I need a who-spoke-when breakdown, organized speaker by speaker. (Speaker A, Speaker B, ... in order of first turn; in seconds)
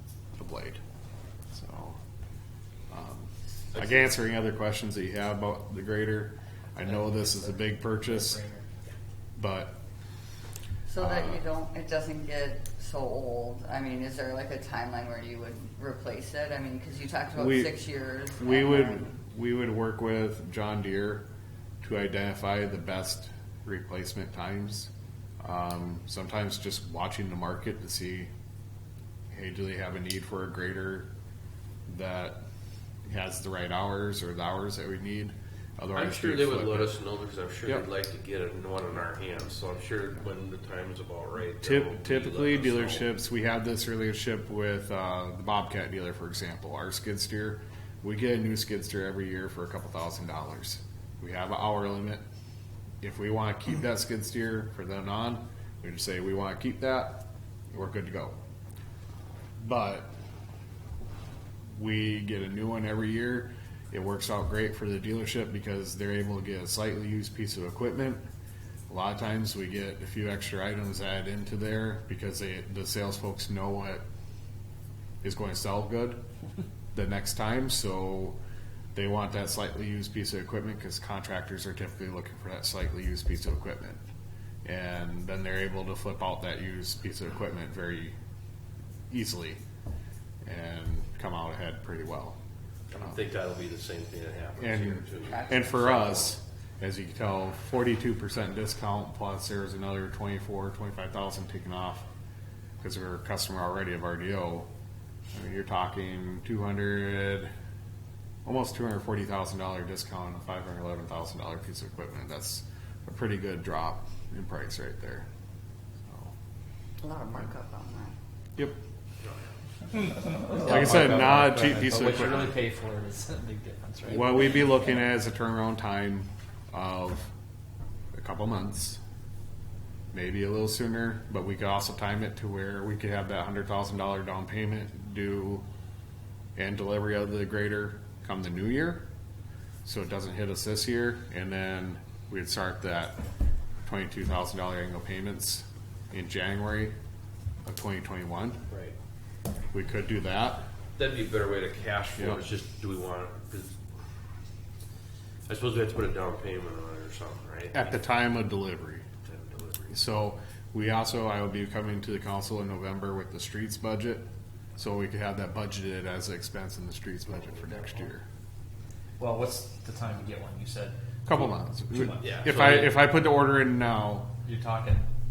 Speaker A: 0.3-0.8, 1.5-2.0, 2.9-8.4, 9.4-9.8, 11.0-11.4, 17.4-17.8, 18.4-21.2, 21.8-28.3, 29.3-31.1, 31.9-32.4, 33.1-36.9, 41.6-52.2, 53.0-58.4, 59.6-60.1, 61.8-68.2, 68.9-74.0, 75.2-76.2, 76.9-78.4, 78.9-84.0, 84.6-88.2, 89.1-89.6, 90.4-92.4, 94.6-102.1, 102.8-104.7, 105.3-107.5, 108.5-115.3, 116.0-116.3, 120.6-122.6, 124.1-127.3, 128.1-129.0, 130.1-135.7, 136.6-139.1, 139.8-143.2, 143.8-146.9, 147.7-148.6, 149.7-150.7, 157.7-159.1, 159.9-168.2, 171.3-174.3
Speaker B: 3.7-4.1, 35.9-43.1, 92.9-96.4, 148.7-149.0, 151.0-153.8, 155.5-157.9, 159.2-160.0, 172.2-173.0
Speaker C: 6.8-8.7, 120.0-124.6, 169.2-172.7, 174.4-175.1
Speaker D: 10.9-19.1, 117.0-118.1